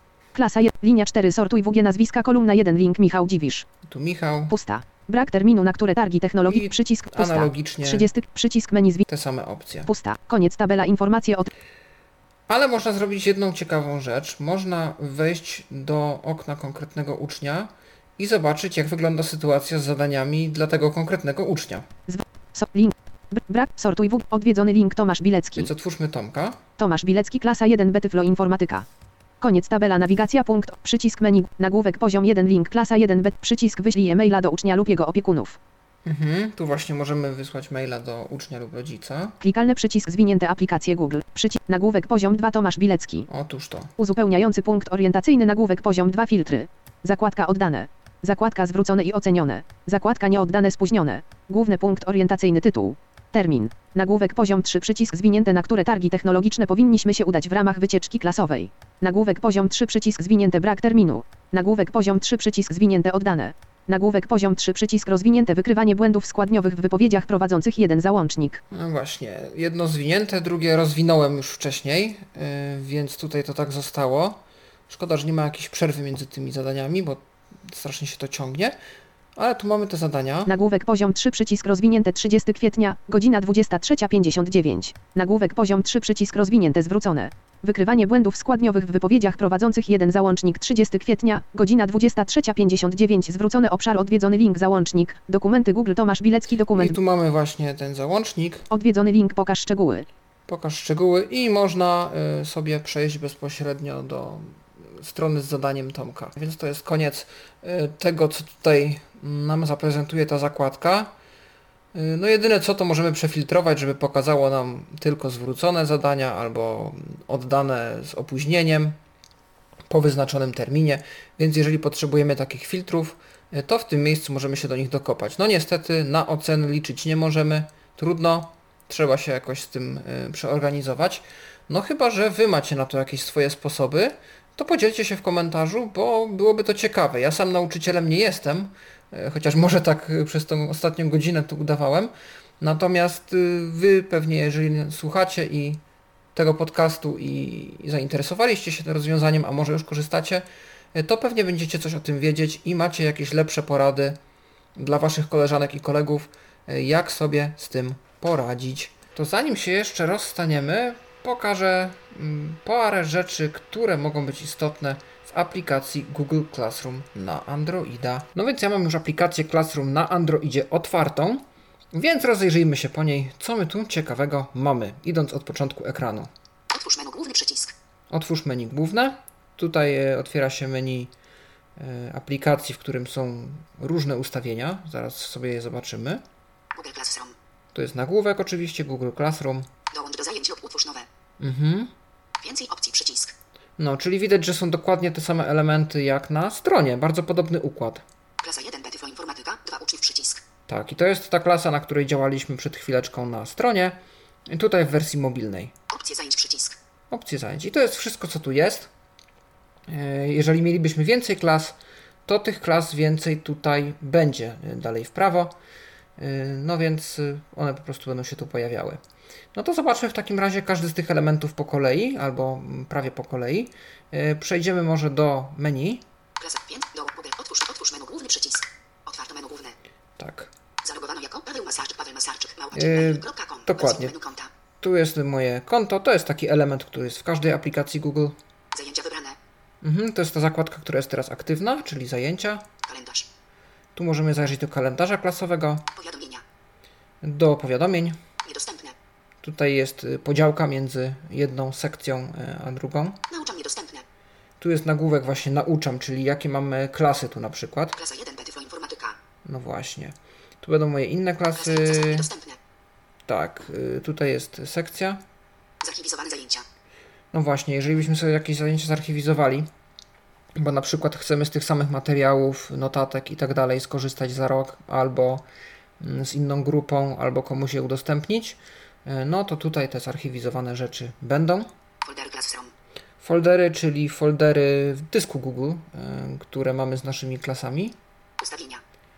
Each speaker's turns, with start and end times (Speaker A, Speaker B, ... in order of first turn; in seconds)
Speaker A: 0.3-3.6, 4.5-9.0, 9.9-11.5, 22.1-25.6, 26.8-28.8, 29.4-35.5, 39.4-43.2, 44.0-68.6, 80.5-96.9, 98.7-100.0
Speaker B: 3.8-4.5, 6.5-8.1, 9.1-9.9, 12.5-21.9, 25.5-26.6, 36.0-39.4, 43.3-43.9, 68.7-78.8, 79.3-80.5, 96.7-98.7, 100.5-111.1, 111.9-119.0, 119.9-145.8, 146.3-154.2, 154.8-176.3, 178.1-181.1, 181.8-186.2, 187.7-189.7, 191.4-191.9, 193.8-198.0, 200.7-205.7, 207.1-208.9, 209.9-215.6, 216.2-219.0, 219.5-226.0, 230.2-230.5, 232.7-234.1, 234.8-238.4, 239.8-242.7, 243.9-245.9, 247.2-248.2, 249.4-253.2, 254.6-258.0, 259.4-262.3, 263.3-265.2, 267.3-269.7, 270.6-275.4, 276.0-281.7, 283.2-287.9
Speaker C: 176.7-177.7, 186.7-187.3, 189.9-191.1, 192.4-193.3, 198.4-200.4, 205.9-206.8, 226.4-229.8, 230.8-234.5, 238.7-239.4, 242.8-243.3, 245.9-246.4, 248.4-248.9, 253.3-254.0, 257.9-259.2, 261.6-262.6, 265.8-266.6, 282.0-282.7, 288.4-288.8